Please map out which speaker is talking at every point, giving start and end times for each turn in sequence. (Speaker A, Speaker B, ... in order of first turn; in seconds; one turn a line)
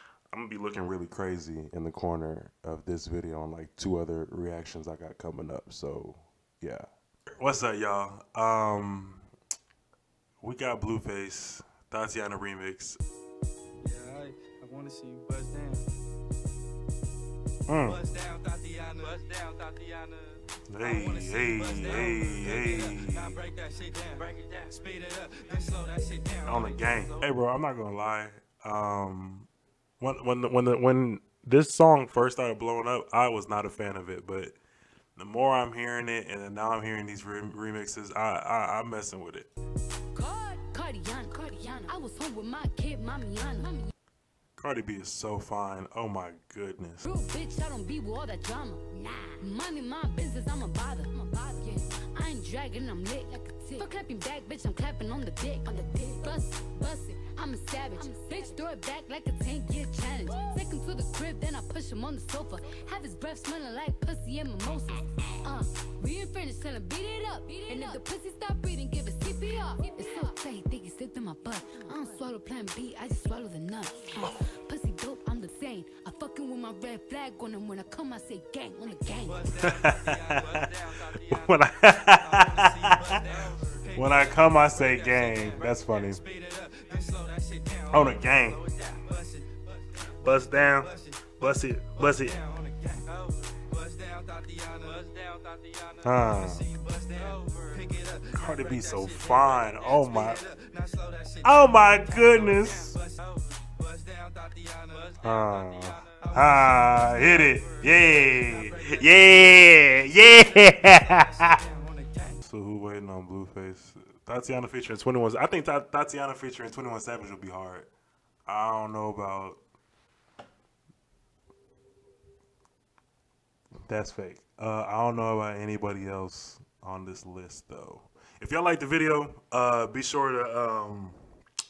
Speaker A: 0.3-6.8
Speaker A: 7.4-9.2
Speaker A: 10.4-13.0
Speaker B: 13.8-15.9
Speaker A: 17.7-18.0
Speaker B: 17.9-27.2
Speaker A: 20.7-23.4
Speaker A: 26.4-29.5
Speaker A: 30.0-34.5
Speaker A: 35.1-39.5
Speaker C: 40.1-43.9
Speaker A: 44.6-47.1
Speaker C: 47.0-79.5
Speaker B: 79.3-81.5
Speaker A: 79.5-83.2
Speaker B: 82.1-89.5
Speaker A: 83.9-86.2
Speaker A: 87.9-88.6
Speaker A: 90.2-92.4
Speaker B: 90.6-91.2
Speaker B: 92.0-112.4
Speaker A: 96.0-96.7
Speaker A: 98.3-100.4
Speaker A: 101.4-103.0
Speaker A: 105.2-111.6
Speaker A: 112.4-117.9
Speaker A: 118.5-119.6
Speaker A: 123.9-131.2